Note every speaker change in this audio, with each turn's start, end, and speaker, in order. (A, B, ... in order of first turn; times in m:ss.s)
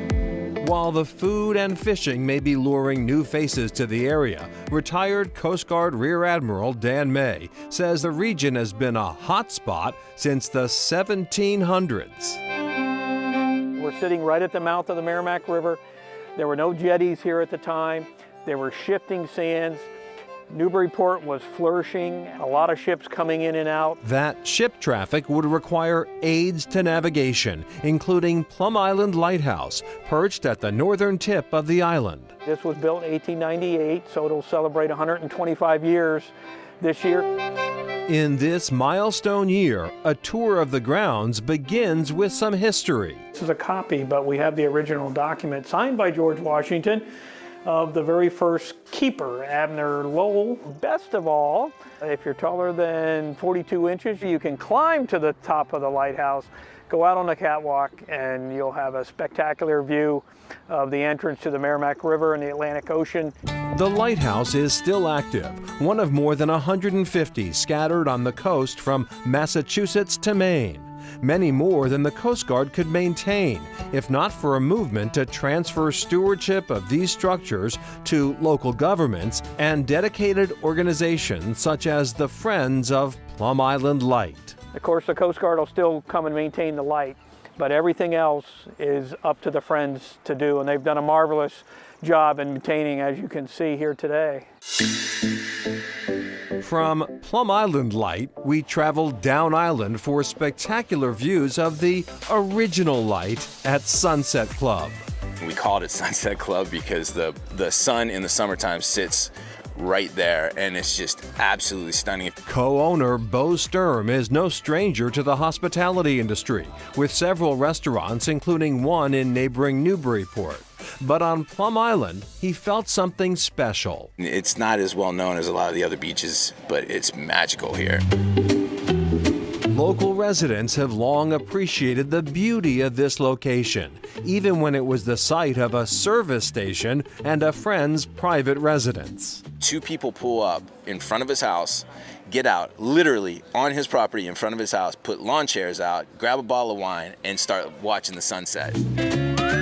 0:00.6-0:12.4 A
0:13.8-0:15.8 B
0:16.4-0:19.9 B
0:20.5-0:24.0 B
0:24.0-0:32.4 A
0:32.4-0:37.3 B
0:38.1-0:43.2 A
0:43.3-0:47.1 B
0:47.6-1:03.3 B
1:03.7-1:24.6 A
1:24.7-1:34.5 B
1:36.6-1:45.0 A
1:45.4-1:52.4 C
1:52.4-2:04.1 A
2:04.2-2:08.0 C
2:09.7-2:19.4 A
2:19.6-2:28.8 C